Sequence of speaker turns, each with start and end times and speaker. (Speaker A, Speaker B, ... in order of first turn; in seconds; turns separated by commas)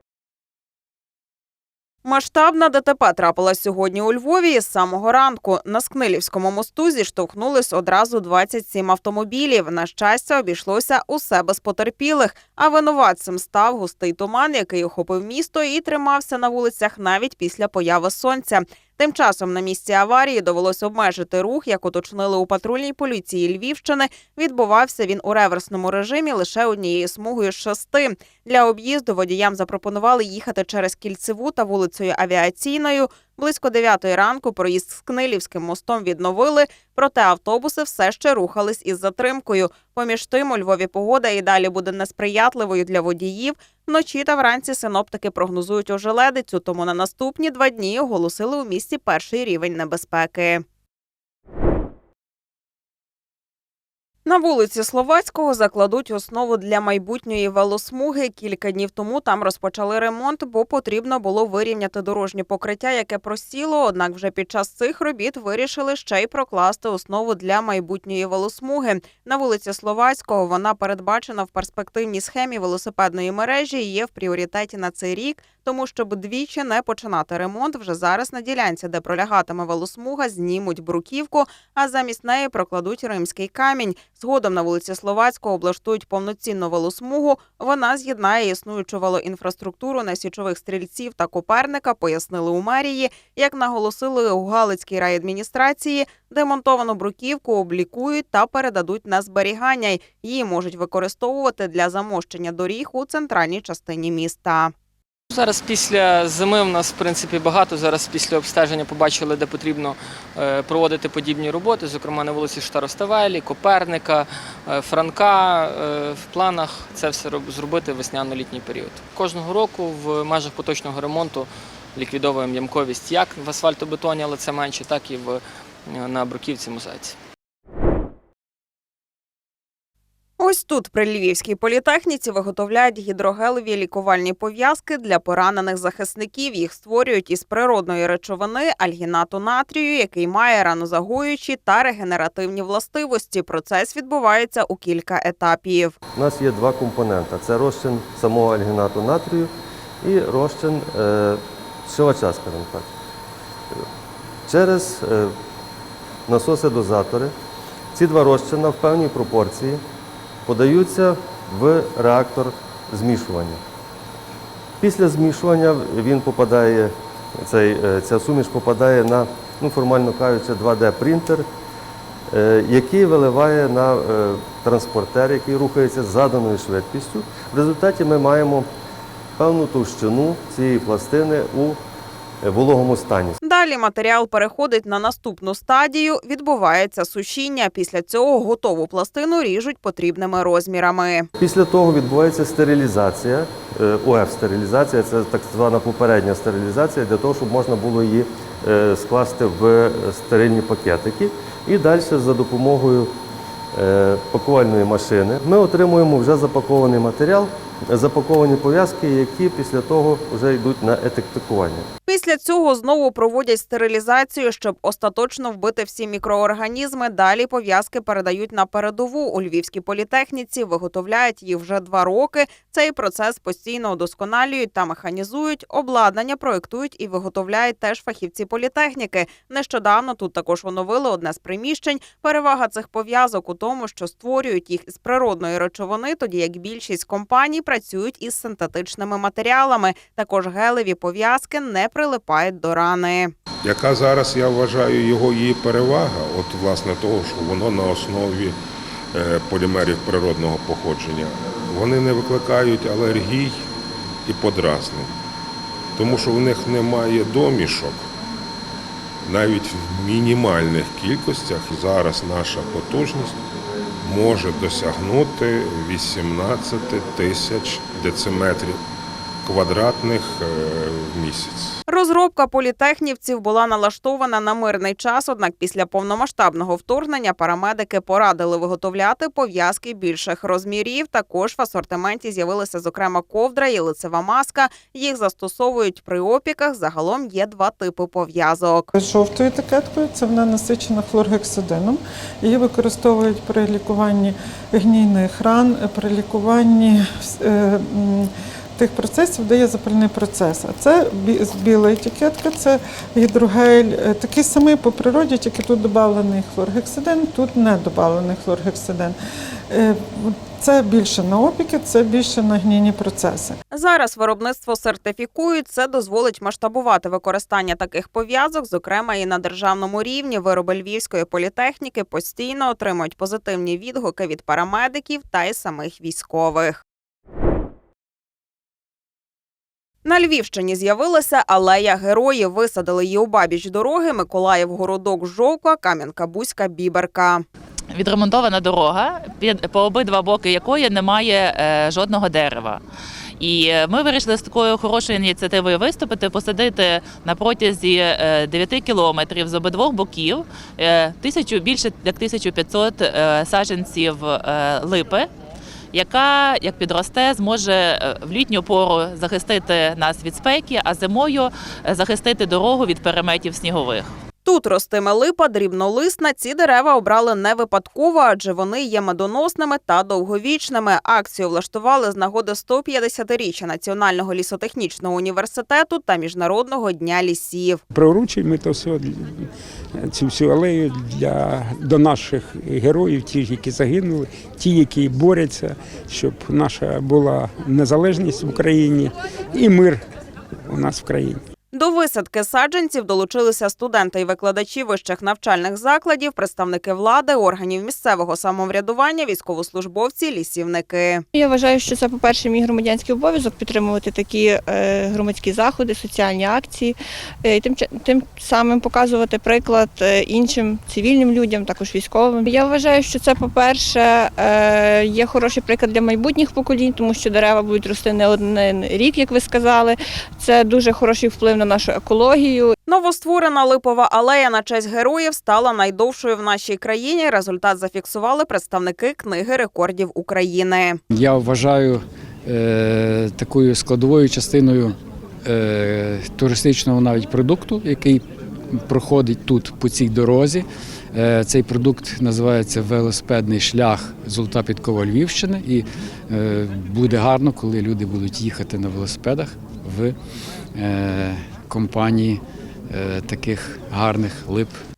Speaker A: 2.0-50.6, Speaker A: 54.3-104.7, Speaker B: 105.3-127.2, Speaker A: 130.4-145.9, Speaker C: 146.2-149.5, Speaker C: 150.0-152.9, Speaker C: 154.5-155.3, Speaker C: 156.3-157.3, Speaker C: 157.9-159.8, Speaker C: 160.5-163.6, Speaker C: 164.8-171.5, Speaker C: 172.3-178.7, Speaker C: 179.4-181.8, Speaker C: 182.4-183.4, Speaker A: 183.4-191.3, Speaker C: 191.4-203.1, Speaker C: 203.7-211.9, Speaker A: 212.1-243.3, Speaker D: 243.6-248.6, Speaker D: 249.1-253.7, Speaker D: 254.3-255.1, Speaker D: 256.0-258.1, Speaker D: 259.2-263.4, Speaker D: 264.0-268.8, Speaker D: 269.4-271.8, Speaker A: 271.9-288.9, Speaker E: 288.9-309.2, Speaker E: 309.7-313.6, Speaker A: 313.7-326.8, Speaker A: 330.1-337.4, Speaker F: 337.9-342.8, Speaker F: 343.4-355.3, Speaker F: 355.9-364.1, Speaker A: 364.4-377.8, Speaker G: 378.0-379.1, Speaker G: 380.1-390.0, Speaker G: 390.7-391.4, Speaker A: 391.7-401.2, Speaker H: 401.4-422.8, Speaker A: 422.9-431.0, Speaker I: 431.1-450.1, Speaker I: 450.8-454.7